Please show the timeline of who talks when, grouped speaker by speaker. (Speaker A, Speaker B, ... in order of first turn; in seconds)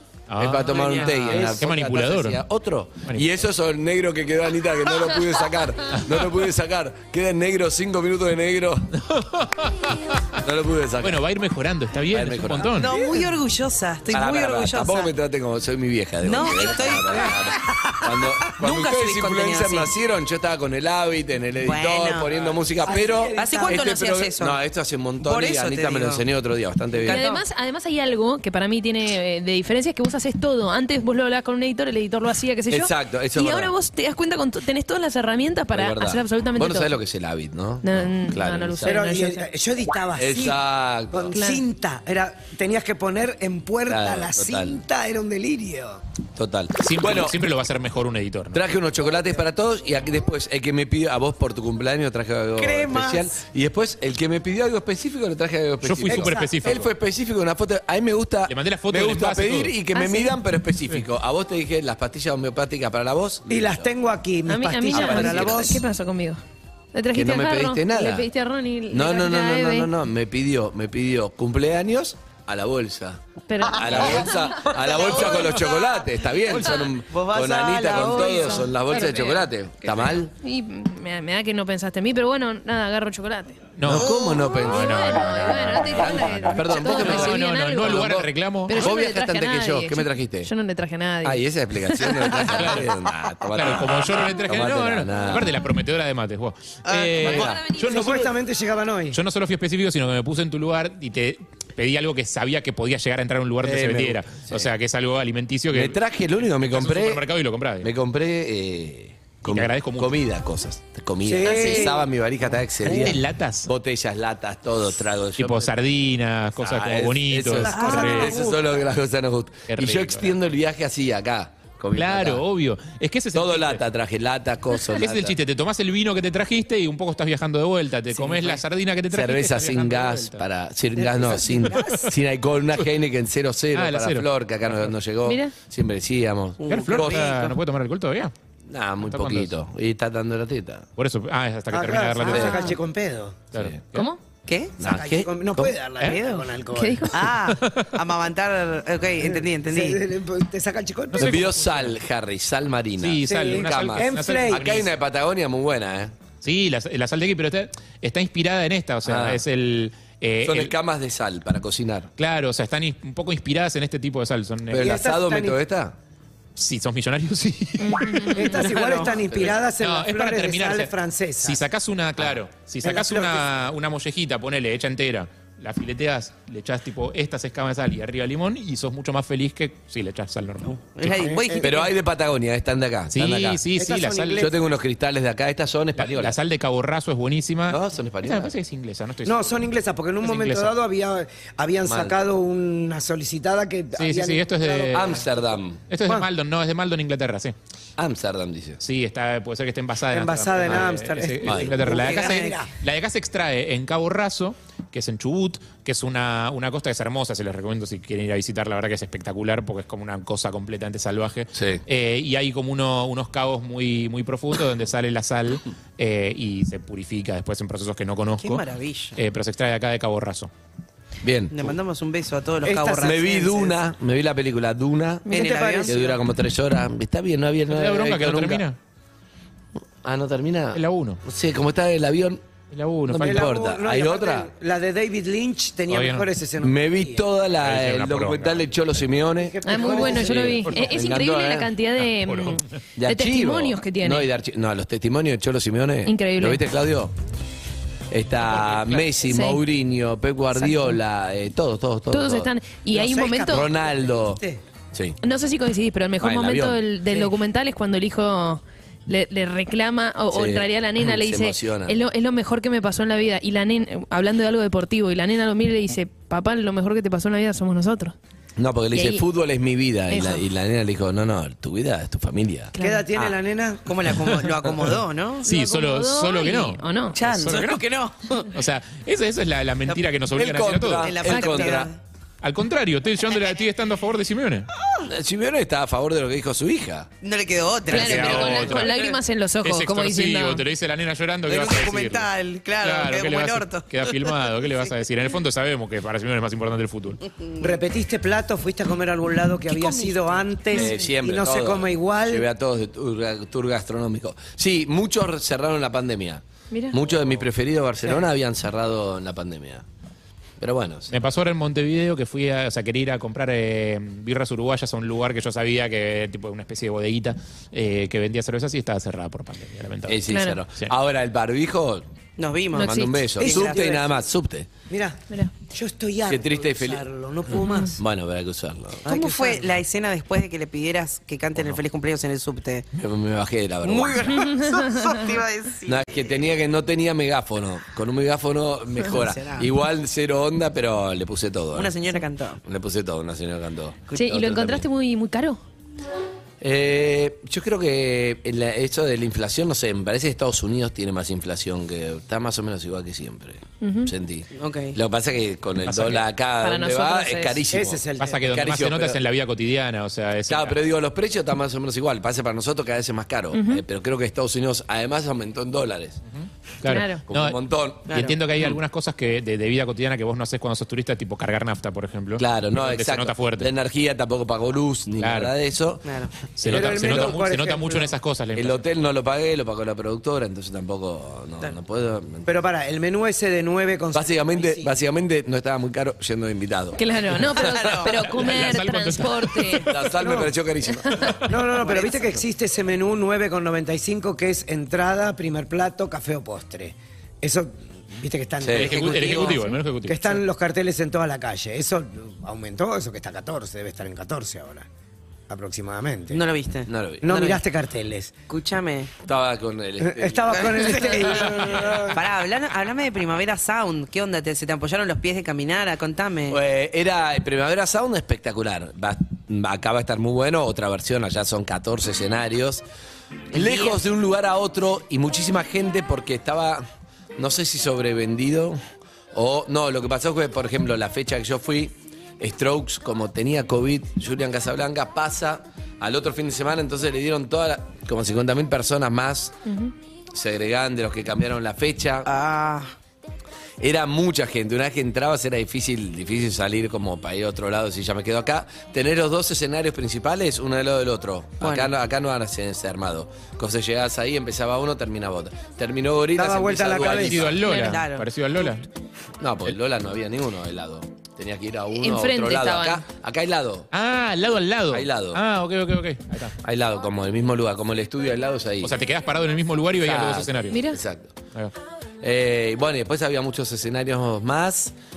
Speaker A: 0.3-2.4, 5.9-6.3, 8.9-10.2, 11.0-12.9, 46.8-48.6, 55.8-56.9, 58.5-59.7, 78.9-79.2, 83.8-88.9, 92.5-92.9, 93.5-98.3, 99.1-106.0, 106.7-107.9, 109.4-110.1, 112.8-113.7, 115.4-118.4, 119.7-120.3, 121.9-123.8, 124.9-130.4, 131.7-132.1, 133.7-134.9, 136.7-138.3, 139.0-139.5, 141.0-142.7, 143.5-144.1, 147.2-147.9, 151.1-151.9, 153.0-154.9, 156.4-160.7, 162.2-164.9, 166.6-168.6, 169.8-170.9, 171.4-181.4, 183.1-184.5, 186.0-189.5, 190.2-190.7, 193.9-195.2, 195.9-197.5, 198.8-218.6, 219.2-220.5, 227.7-228.8, 230.7-231.2, 232.7-233.5, 235.9-236.3, 237.6-238.7, 240.7-240.9, 242.0-242.6, 248.6-249.0, 275.4-277.8, 278.5-281.2, 282.4-284.7, 287.9-288.9, 289.6-297.2, 311.1-320.9, 355.9-356.2, 358.2-360.8, 366.4-367.6, 368.1-373.7, 375.2-375.5, 376.6-378.8, 388.1-389.9, 398.8-400.4, 457.0-458.9, 463.9-466.6, 468.8-470.9
Speaker B: 0.4-8.9, 10.4-11.2, 12.1-12.9, 14.1-27.2, 32.7-33.7, 35.7-39.0, 40.2-41.3, 43.9-44.8, 46.4-47.4, 48.5-63.9, 64.9-65.8, 67.1-68.3, 68.9-73.2, 73.7-80.3, 83.8-90.5, 91.2-95.5, 97.2-97.6, 103.6-104.7, 105.7-107.2, 107.8-115.7, 116.6-122.4, 123.3-125.3, 129.1-137.4, 138.7-140.8, 142.3-142.6, 143.5-143.8, 144.8-145.8, 151.2-156.1, 159.1-159.4, 160.4-162.1, 164.7-165.9, 169.2-169.5, 181.6-183.6, 184.4-186.4, 187.7-188.5, 191.8-192.2, 194.9-195.8, 198.0-198.8, 201.4-202.0, 211.5-211.8, 221.2-221.7, 223.0-228.6, 230.0-232.4, 233.1-234.5, 236.6-241.7, 243.0-247.1, 248.1-252.5, 253.2-255.2, 256.2-256.8, 260.3-262.0, 268.6-272.7, 280.3-281.9, 285.0-287.1, 300.7-309.8, 310.6-311.1, 320.1-322.0, 322.8-324.7, 326.3-327.0, 327.6-329.2, 331.5-331.8, 332.9-334.5, 335.9-341.9, 342.6-344.8, 346.6-359.2, 360.5-366.2, 367.2-368.1, 372.4-377.4, 378.5-382.5, 384.1-388.5, 389.9-391.5, 398.6-399.0, 406.9-407.3, 409.2-411.9, 416.5-422.8, 423.5-426.8, 427.4-428.8, 429.3-439.5, 440.3-442.3, 443.8-457.6, 459.4-463.9, 464.9-465.4, 466.6-468.9, 469.9-471.4, 472.2-474.9
Speaker C: 0.7-1.5, 12.8-15.1, 16.2-19.9, 21.6-22.3, 22.9-24.6, 25.2-26.2, 27.0-27.4, 73.8-76.1, 76.6-78.8, 84.0-84.5, 96.8-97.5, 128.3-128.5, 131.0-131.7, 136.6-137.6, 142.2-142.7, 144.5-144.8, 146.0-146.4, 147.1-150.0, 168.6-169.2, 180.6-181.9, 218.4-219.2, 221.5-223.5, 225.3-225.9, 273.9-275.6, 277.1-278.5, 281.0-282.0, 287.2-289.2, 291.4-294.9, 297.4-297.7, 299.7-300.4, 322.4-323.9, 329.1-332.9, 333.8-336.5, 339.1-339.7, 341.7-342.6, 354.6-355.0, 368.1-368.4, 376.0-376.3, 387.5-388.1, 391.8-392.2, 398.9-399.6, 406.3-407.6, 408.5-409.1, 410.5-416.6, 423.5-424.0, 442.2-442.9, 451.6-451.9, 457.7-458.3
Speaker D: 22.8-24.0, 38.8-46.0, 52.5-53.4, 56.0-56.8, 63.5-65.8, 97.8-99.2, 111.2-112.1, 117.6-118.7, 131.2-131.8, 141.7-143.4, 144.8-147.3, 149.2-151.5, 153.2-154.7, 164.8-165.6, 168.3-171.6, 172.8-173.5, 181.2-181.7, 183.7-184.6, 189.2-195.2, 200.1-202.7, 222.6-223.8, 225.3-226.2, 233.2-237.2, 239.3-240.7, 252.9-254.6, 272.8-273.9, 297.6-302.5, 323.4-324.0, 324.9-328.0, 329.1-329.6, 357.7-358.6, 376.6-378.1, 382.4-385.0, 390.2-390.5, 391.5-404.9, 405.5-406.4, 407.2-408.4, 410.0-412.2, 456.3-457.5
Speaker E: 27.1-36.9, 37.8-39.4, 41.3-41.6, 59.9-60.4, 64.5-66.4, 66.9-69.9, 73.5-74.4, 78.5-79.4, 80.3-83.6, 84.6-88.0, 88.7-92.7, 97.3-98.2, 135.2-135.5, 143.9-144.2, 146.7-147.3, 167.8-168.6, 225.2-225.6, 239.6-244.3, 246.1-246.6, 249.2-249.6, 252.1-253.7, 255.2-268.1, 268.9-269.2, 270.1-270.4, 272.7-273.1, 275.4-277.2, 281.2-281.7, 287.9-290.6, 306.7-307.0, 320.3-320.6, 322.7-323.1, 334.4-335.2, 344.1-345.6, 353.8-354.1, 356.6-357.6, 363.5-363.8, 366.8-367.2, 387.0-389.9, 391.0-391.4, 439.6-439.9, 457.6-458.0, 461.9-463.0, 470.7-471.0